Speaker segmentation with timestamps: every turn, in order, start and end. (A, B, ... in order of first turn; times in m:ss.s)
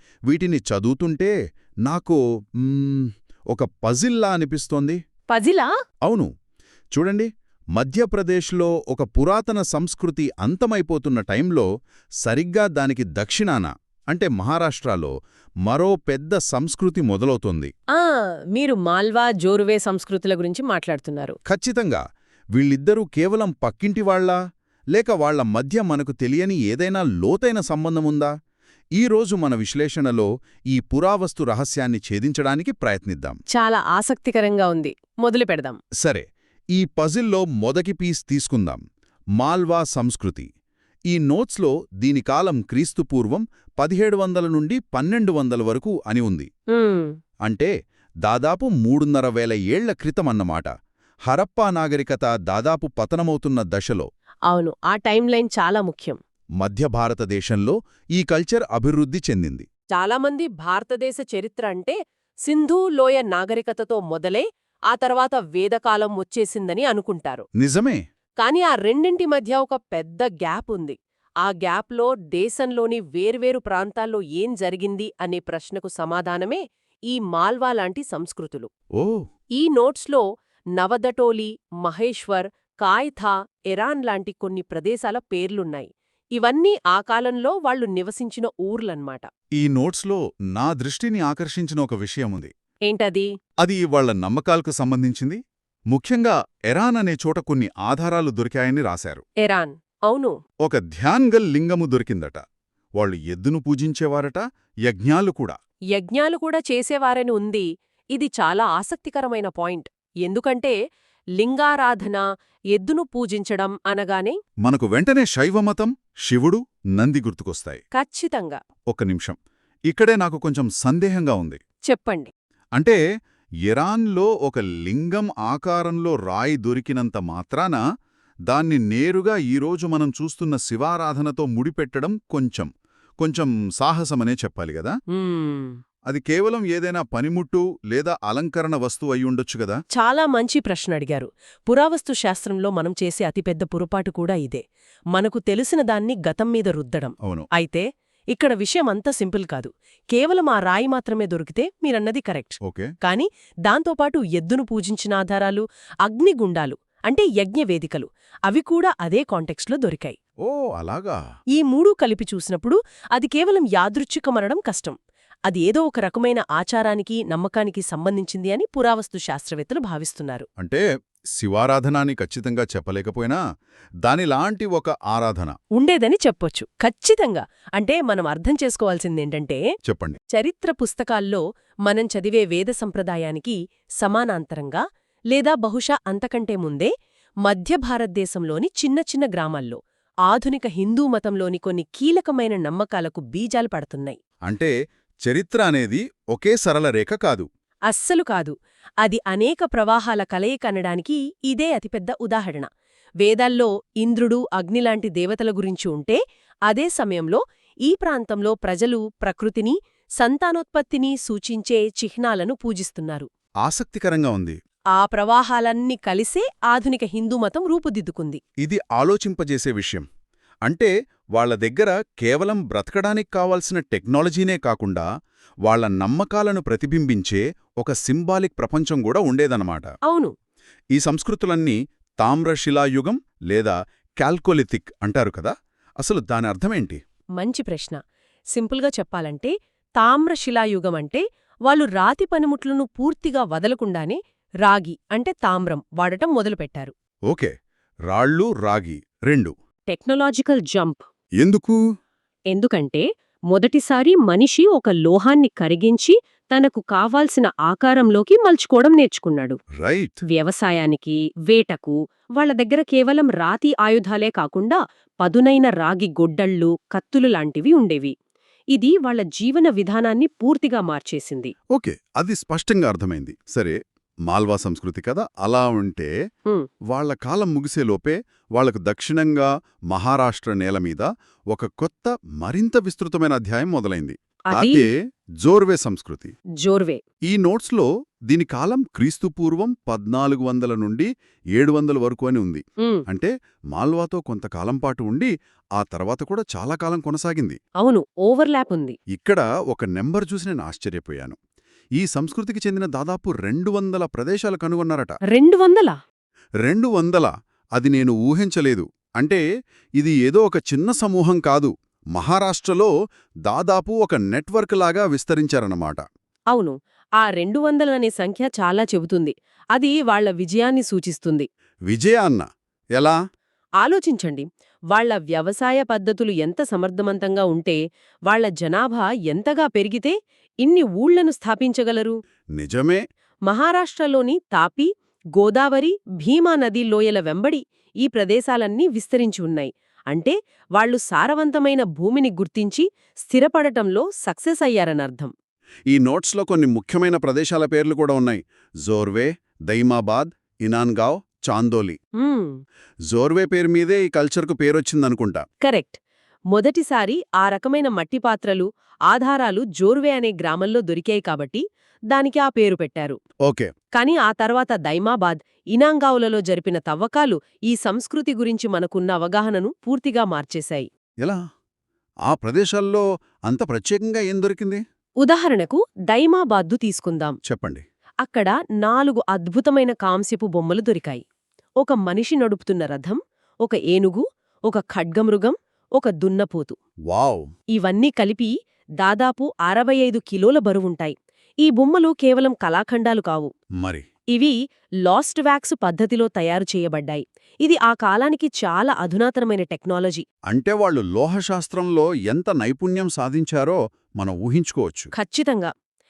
0:00.3-0:01.3 A
0:01.8-0:05.0 A
0:05.3-0:05.7 B
0:06.9-0:11.7 A
0:12.2-0:15.1 A
0:15.7-0:17.7 A
0:18.0-0:21.4 B
0:21.5-0:22.0 A
0:22.6-0:24.4 A
0:25.0-0:28.3 A
0:29.0-0:33.4 A
0:33.5-0:35.8 B
0:36.0-0:38.8 A
0:39.4-0:40.5 A
0:41.1-0:46.5 A
0:46.7-0:47.1 B
0:48.3-0:50.7 A
0:51.3-0:54.1 A
0:54.5-0:56.2 B
0:56.6-0:59.6 A
0:59.9-1:02.0 B
1:02.5-1:07.4 B
1:07.6-1:08.0 A
1:08.4-1:18.7 B
1:19.0-1:19.2 A
1:19.6-1:20.2 B
1:20.8-1:29.3 B
1:29.6-1:32.5 A
1:32.9-1:33.3 B
1:33.6-1:35.4 A
1:35.9-1:39.2 A
1:39.4-1:40.4 B
1:40.6-1:42.4 A
1:43.0-1:45.6 A
1:45.9-1:50.8 B
1:51.4-1:54.4 B
1:54.6-1:57.8 A
1:57.9-1:58.6 B
1:58.9-1:59.4 A
1:59.9-2:01.6 A
2:01.9-2:02.3 B
2:03.7-2:07.8 A
2:08.5-2:12.7 A
2:13.2-2:15.0 A
2:15.1-2:15.8 B
2:16.1-2:19.8 A
2:20.0-2:24.6 B
2:25.2-2:40.2 B
2:27.2-2:27.5 A
2:32.6-2:32.9 A
2:40.4-2:41.2 A
2:41.6-2:50.5 B
2:50.6-2:50.8 A
2:51.3-2:53.4 A
2:54.0-2:55.6 A
2:55.8-2:59.6 B
2:59.9-3:00.2 A
3:00.3-3:06.9 B
3:07.5-3:14.2 B
3:14.5-3:14.7 A
3:15.2-3:17.5 A
3:17.9-3:22.7 B
3:23.2-3:33.3 B
3:33.6-3:34.6 A
3:35.0-3:38.4 B
3:38.6-3:40.1 A
3:40.7-3:45.0 A
3:45.7-3:49.9 A
3:50.1-3:50.3 B
3:50.9-3:57.0 A
3:57.4-3:58.0 B
3:58.5-4:06.9 B
4:07.3-4:07.5 A
4:08.1-4:09.5 A
4:09.9-4:11.1 B
4:11.4-4:11.8 A
4:12.5-4:19.6 B
4:19.8-4:20.2 A
4:20.3-4:28.1 B
4:28.7-4:31.5 B
4:31.7-4:33.8 A
4:34.3-4:36.1 A
4:36.9-4:46.3 A
4:44.5-4:44.8 B
4:46.6-4:47.0 B
4:47.3-4:57.6 A
4:57.8-4:59.0 B
4:59.1-5:01.4 A
5:02.0-5:05.2 A
5:05.3-5:06.0 B
5:06.6-5:09.4 A
5:10.0-5:12.9 A
5:13.5-5:16.0 A
5:16.5-5:21.5 B
5:21.9-5:22.5 A
5:23.8-5:32.2 B
5:32.6-5:33.0 A
5:33.5-5:45.3 B
5:45.9-5:52.0 A
5:52.2-5:52.6 B
5:53.1-5:55.4 A
5:55.6-5:56.0 B
5:56.5-6:03.2 B
6:03.4-6:03.7 A
6:03.9-6:10.9 B
6:12.3-6:14.8 A
6:15.2-6:17.4 B
6:17.4-6:17.8 A
6:18.2-6:21.2 B
6:21.8-6:26.8 B
6:27.1-6:27.5 A
6:27.7-6:33.5 B
6:34.3-6:40.2 B
6:40.5-6:45.1 A
6:45.2-6:45.7 B